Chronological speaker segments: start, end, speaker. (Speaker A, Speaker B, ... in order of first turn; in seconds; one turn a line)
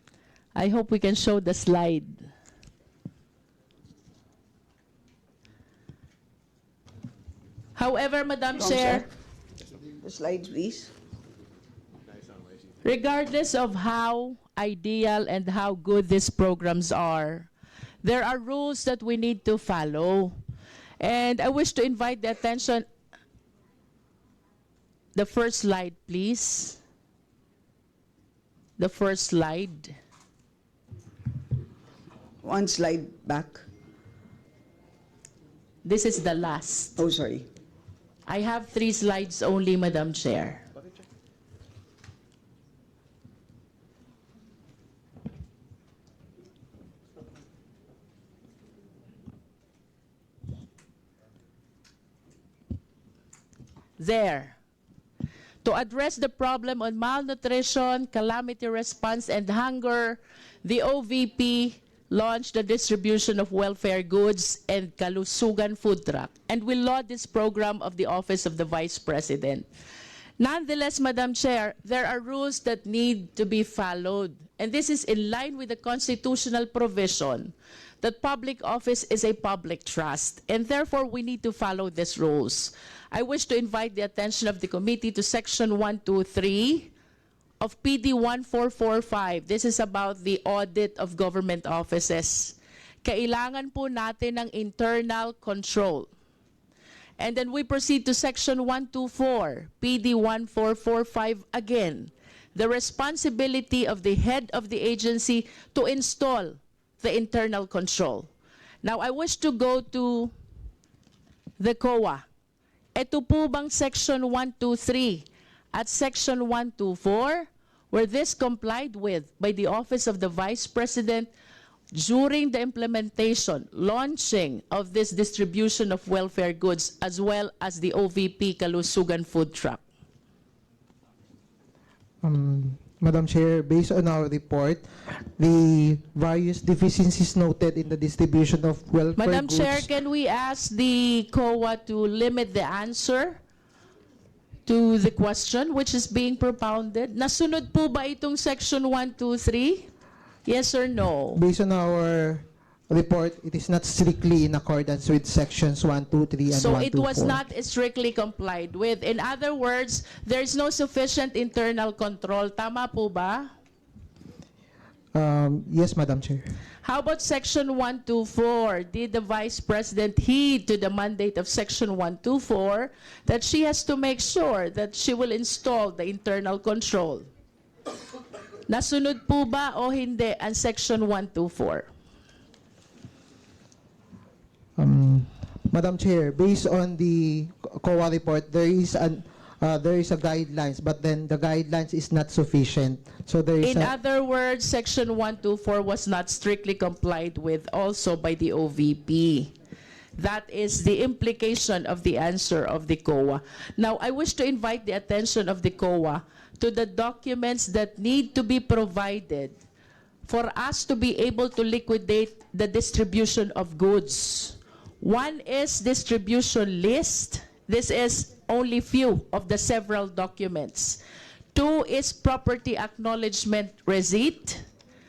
Speaker A: 0.5-2.3
Speaker A: 7.7-9.1
Speaker B: 8.6-9.1
Speaker B: 10.0-10.9
Speaker A: 12.8-17.5
Speaker A: 18.0-20.4
Speaker A: 21.0-22.8
Speaker A: 25.1-26.8
Speaker A: 28.8-29.9
Speaker B: 32.4-33.6
Speaker A: 35.8-37.0
Speaker B: 37.0-37.5
Speaker A: 38.3-40.6
Speaker A: 54.0-54.6
Speaker A: 55.6-69.7
Speaker A: 70.4-86.9
Speaker A: 87.6-96.1
Speaker A: 97.2-108.3
Speaker A: 108.8-110.3
Speaker A: 111.6-112.2
Speaker A: 112.9-121.3
Speaker A: 121.9-129.8
Speaker C: 132.2-139.9
Speaker A: 139.2-143.4
Speaker A: 144.7-149.9
Speaker A: 150.4-151.4
Speaker C: 151.3-157.4
Speaker A: 156.5-163.5
Speaker C: 165.1-166.4
Speaker A: 166.8-177.3
Speaker A: 178.7-181.9
Speaker C: 184.8-193.9
Speaker A: 193.6-199.5
Speaker A: 200.2-209.6
Speaker A: 210.2-221.0
Speaker A: 221.5-224.6